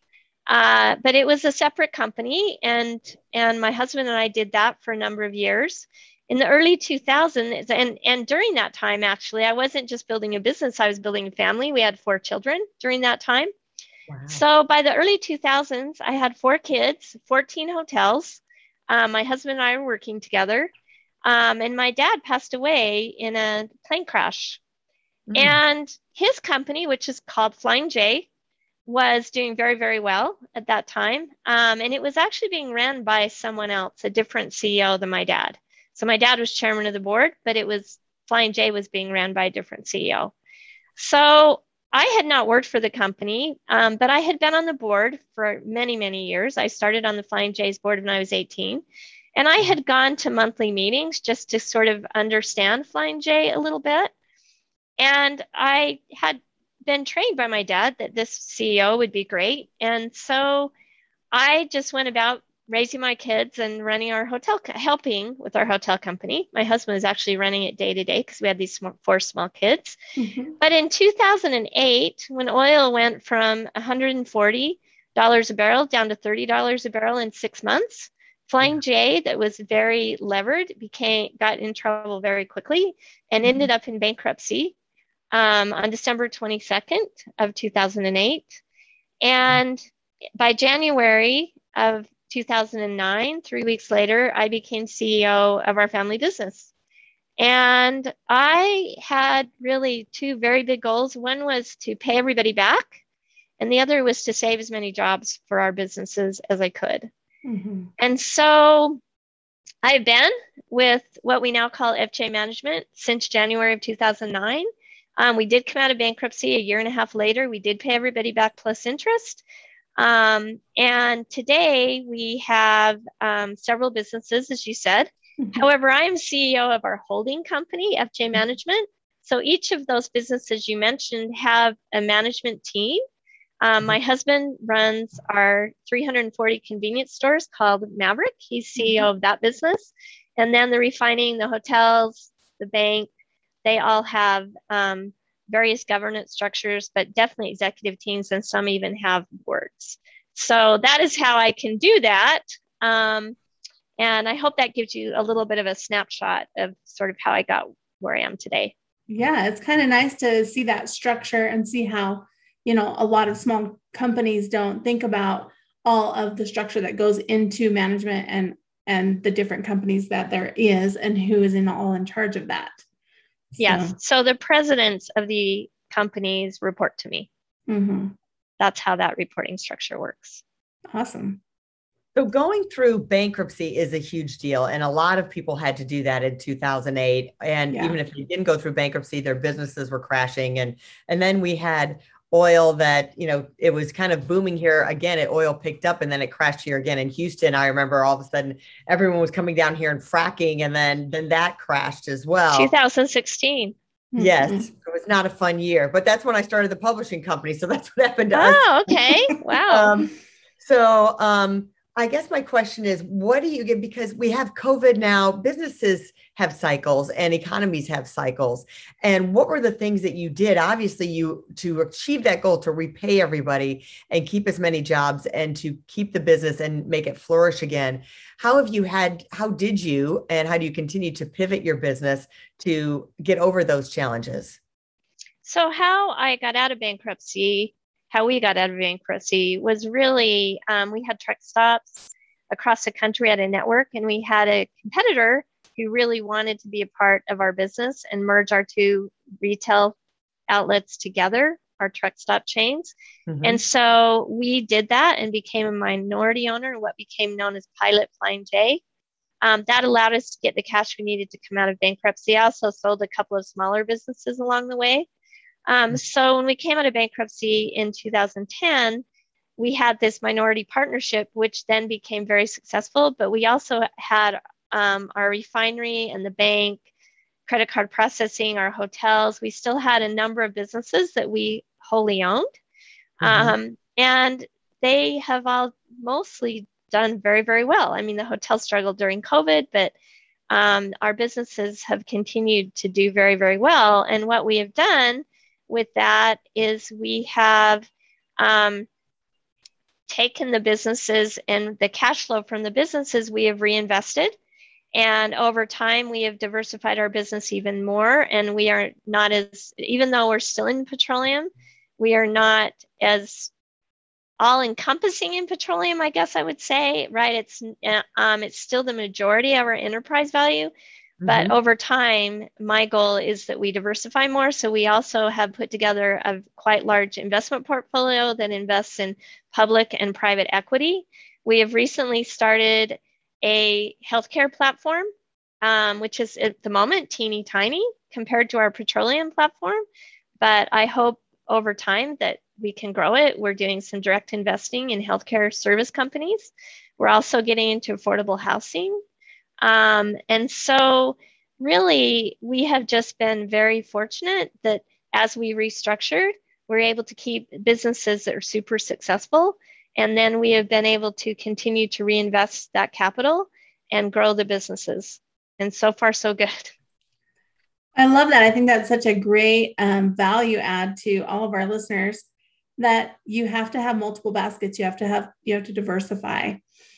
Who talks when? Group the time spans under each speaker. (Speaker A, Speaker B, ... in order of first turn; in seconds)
Speaker A: 0.5-13.5, 14.3-20.7, 21.2-24.6, 25.3-28.3, 28.9-40.3, 41.0-48.8, 49.4-54.1, 55.0-60.7, 61.3-70.0, 70.6-84.7, 85.3-88.6, 89.2-89.8, 90.4-96.7, 97.4-103.0, 103.6-107.1, 108.0-109.0, 109.8-119.4, 120.0-133.0, 133.6-143.1, 143.6-153.3, 154.0-158.7, 173.6-177.3, 178.6-180.4, 202.5-203.7, 208.3-209.9, 235.4-249.9, 250.5-258.8, 259.4-265.1, 265.7-269.0, 269.6-276.8, 277.5-282.5, 283.2-289.9, 290.5-297.9, 298.4-298.9, 300.1-304.4, 304.9-313.5, 314.4-320.7, 321.3-335.1, 335.6-339.8, 340.4-349.0, 349.6-366.7
Speaker B: 14.1-14.4, 25.3-25.6, 182.1-202.7, 204.2-208.6, 209.7-234.6, 253.3-253.6, 283.2-283.6, 321.2-321.5
Speaker C: 70.2-70.5, 107.4-107.9, 138.8-139.1, 159.1-172.8, 173.5-173.9, 177.7-178.1, 180.9-181.4, 187.7-187.9, 204.1-204.7, 367.9-372.2, 372.8-376.6